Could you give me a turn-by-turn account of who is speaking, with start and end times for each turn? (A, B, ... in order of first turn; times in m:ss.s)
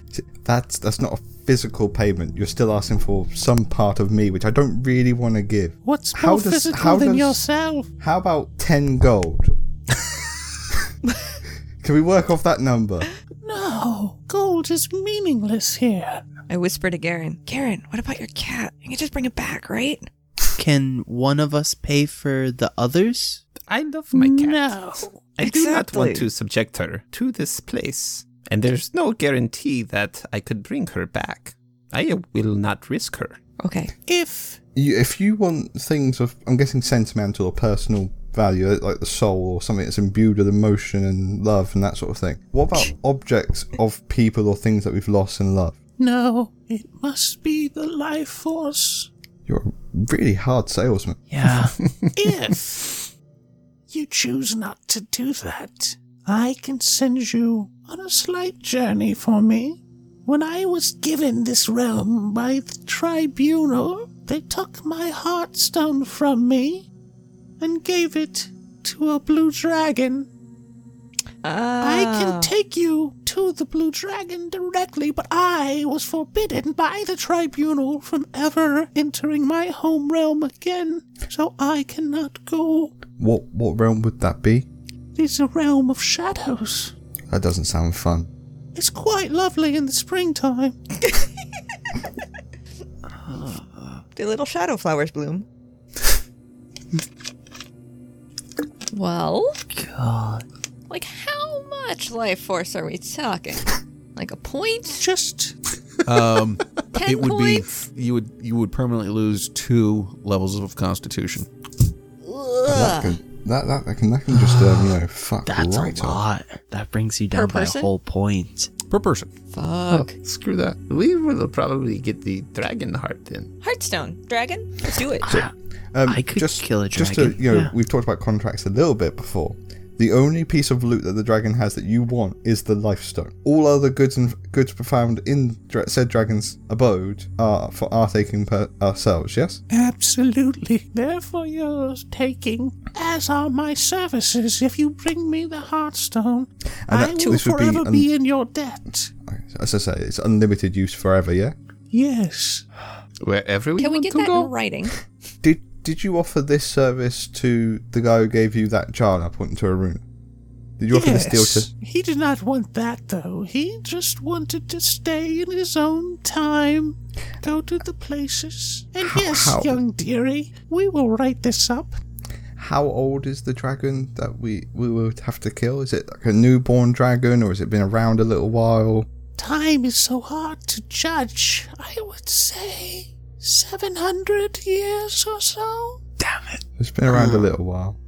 0:00.1-0:07.4 A
0:05.8-0:07.9 B
0:08.0-0:09.5 A
0:11.8-0:13.1 A
0:13.4-0:16.3 B
0:16.5-0:20.1 C
0:20.6-0:23.4 D
0:23.7-0:33.4 E
0:24.1-0:25.3 B
0:25.4-0:26.3 C
0:33.6-0:33.9 C
0:34.1-0:34.6 B
0:34.8-0:45.8 A
0:46.0-0:49.1 B
0:49.5-0:51.2 A
0:51.3-0:51.8 D
0:52.2-0:53.1 B
0:53.9-1:06.9 B
1:07.6-1:10.3 B
1:11.4-1:12.5 C
1:11.8-1:23.0 B
1:23.2-1:24.7 A
1:25.2-1:26.9 B
1:27.3-1:28.3 A
1:28.7-1:30.8 B
1:33.3-1:34.0 D
1:34.2-1:35.5 C
1:38.9-1:39.6 C
1:39.8-1:40.4 D
1:40.9-1:45.0 C
1:44.9-1:45.6 B
1:46.0-1:51.5 F
1:46.9-1:47.8 C
1:52.2-1:53.2 C
1:52.7-1:56.2 A
1:54.3-1:58.7 D
1:57.3-1:57.9 C
1:58.9-1:59.3 F
1:59.5-2:00.2 C
2:00.2-2:03.5 E
2:03.6-2:05.4 C
2:05.3-2:19.6 A
2:06.1-2:07.7 D
2:19.7-2:29.1 B
2:26.9-2:28.1 A
2:27.2-2:27.4 C
2:29.2-2:31.6 A
2:31.9-2:32.6 B
2:33.2-2:34.5 E
2:33.8-2:35.0 C
2:35.4-2:40.0 A
2:40.8-2:41.7 A
2:40.9-2:52.0 B
2:49.0-2:49.8 A
2:52.6-2:59.1 A
2:59.4-3:06.0 B
3:06.2-3:06.6 D
3:06.8-3:08.0 A
3:07.1-3:07.5 E